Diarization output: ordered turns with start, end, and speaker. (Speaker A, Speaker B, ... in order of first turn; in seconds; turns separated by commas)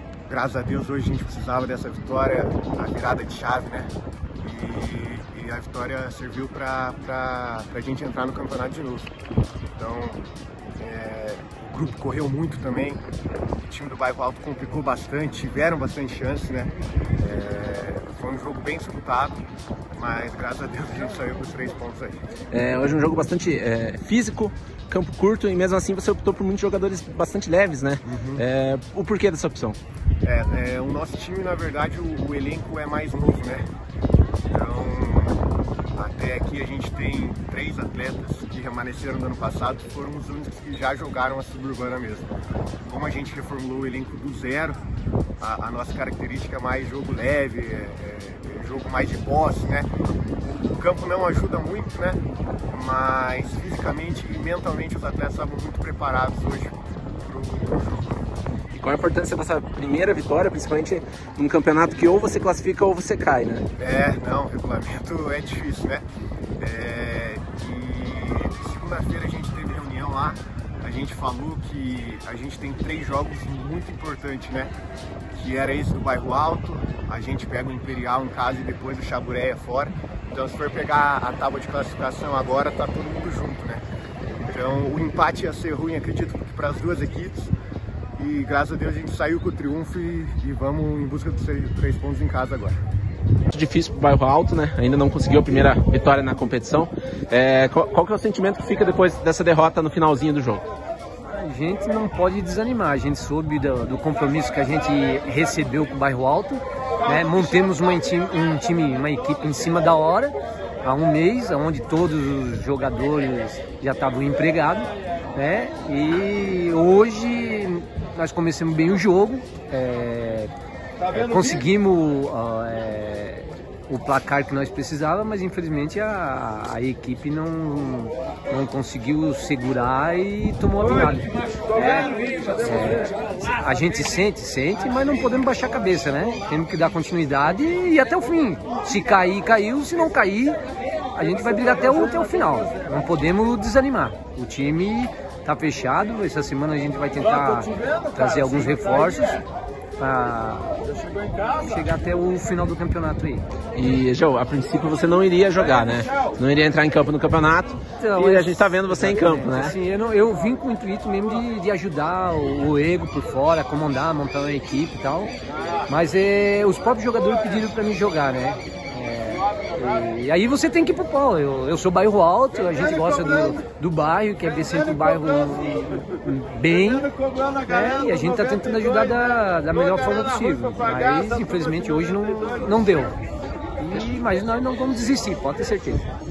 Speaker A: 0.3-9.1, Speaker A: 9.8-13.0, Speaker A: 13.7-22.3, Speaker B: 22.5-29.8, Speaker A: 28.1-28.4, Speaker A: 30.2-33.7, Speaker A: 34.5-44.8, Speaker A: 45.4-49.9, Speaker A: 50.4-58.4, Speaker B: 58.7-63.6, Speaker A: 63.8-66.1, Speaker A: 66.6-74.7, Speaker A: 75.3-83.8, Speaker A: 84.5-87.5, Speaker A: 88.2-92.8, Speaker B: 93.5-100.7, Speaker C: 101.3-120.5, Speaker C: 121.1-140.6, Speaker C: 141.1-149.4, Speaker C: 150.0-150.9, Speaker C: 151.4-153.5, Speaker B: 153.8-159.8, Speaker C: 158.0-165.3, Speaker C: 165.9-183.2, Speaker C: 183.8-186.0